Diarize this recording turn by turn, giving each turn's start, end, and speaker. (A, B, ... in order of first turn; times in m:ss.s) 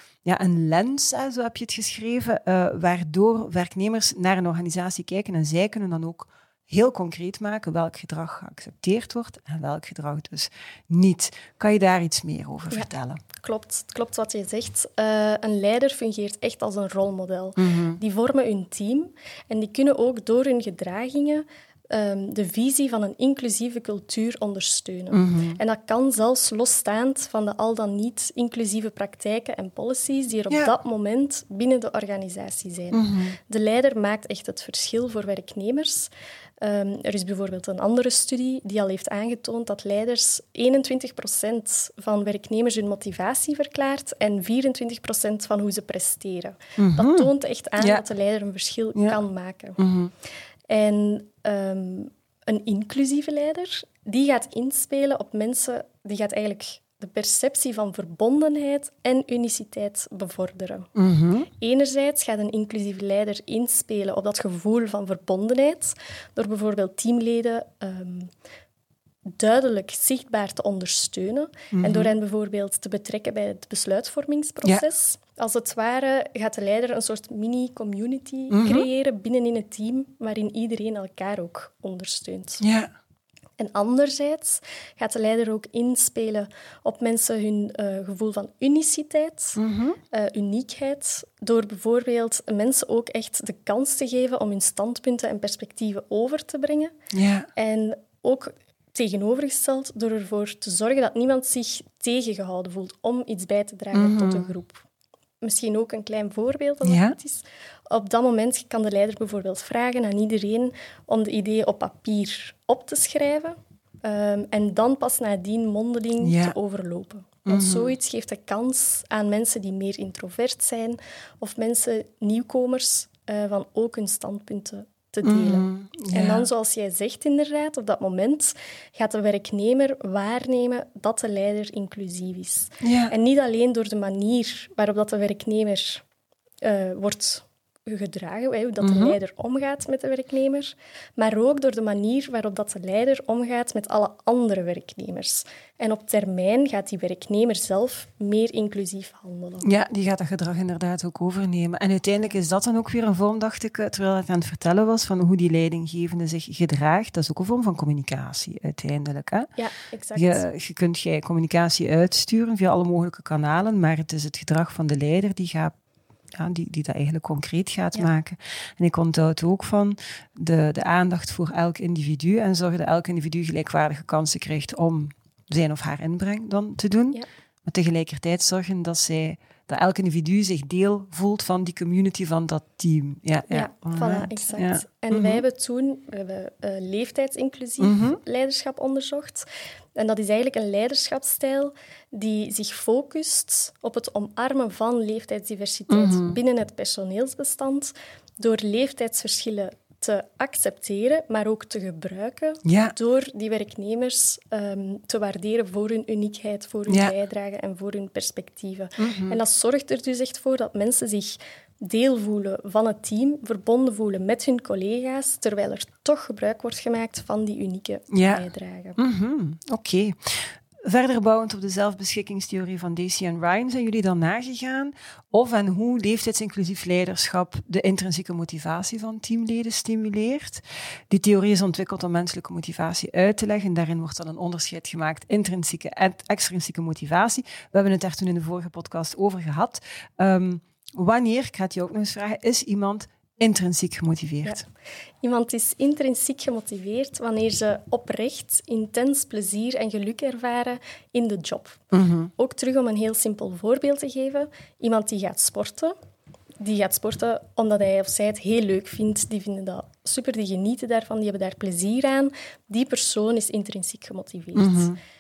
0:00.2-0:13.2 A
0:12.7-0:49.8 B
0:17.6-0:18.0 A
0:25.1-0:25.6 A
0:32.9-0:33.4 A
0:46.8-0:48.0 A
0:49.8-0:50.1 A
0:50.7-1:00.9 B
1:01.0-1:01.5 A
1:01.6-1:08.3 B
1:09.3-1:22.6 B
1:11.7-1:12.1 A
1:18.5-1:18.9 A
1:22.6-1:22.9 A
1:23.6-1:29.6 B
1:29.6-1:30.0 A
1:30.1-1:36.9 B
1:37.1-1:37.5 A
1:37.6-1:44.8 B
1:43.9-1:44.5 A
1:45.4-2:16.0 B
1:46.8-1:47.2 A
1:56.2-1:56.5 A
1:57.5-1:57.9 A
2:05.2-2:06.5 A
2:12.8-2:13.1 A
2:16.6-2:29.6 B
2:18.8-2:19.2 A
2:29.6-2:39.5 A
2:39.6-2:40.4 B
2:40.2-2:45.7 A
2:46.4-3:05.4 A
3:03.5-3:39.0 B
3:07.8-3:08.2 A
3:15.9-3:16.4 A
3:22.6-3:22.9 A
3:26.9-3:27.1 A
3:29.0-3:29.4 A
3:38.1-3:38.5 A
3:39.0-4:04.6 A
4:05.2-4:11.8 B
4:11.9-4:12.3 A
4:12.4-4:15.9 B
4:16.6-4:24.9 B
4:24.6-4:25.0 A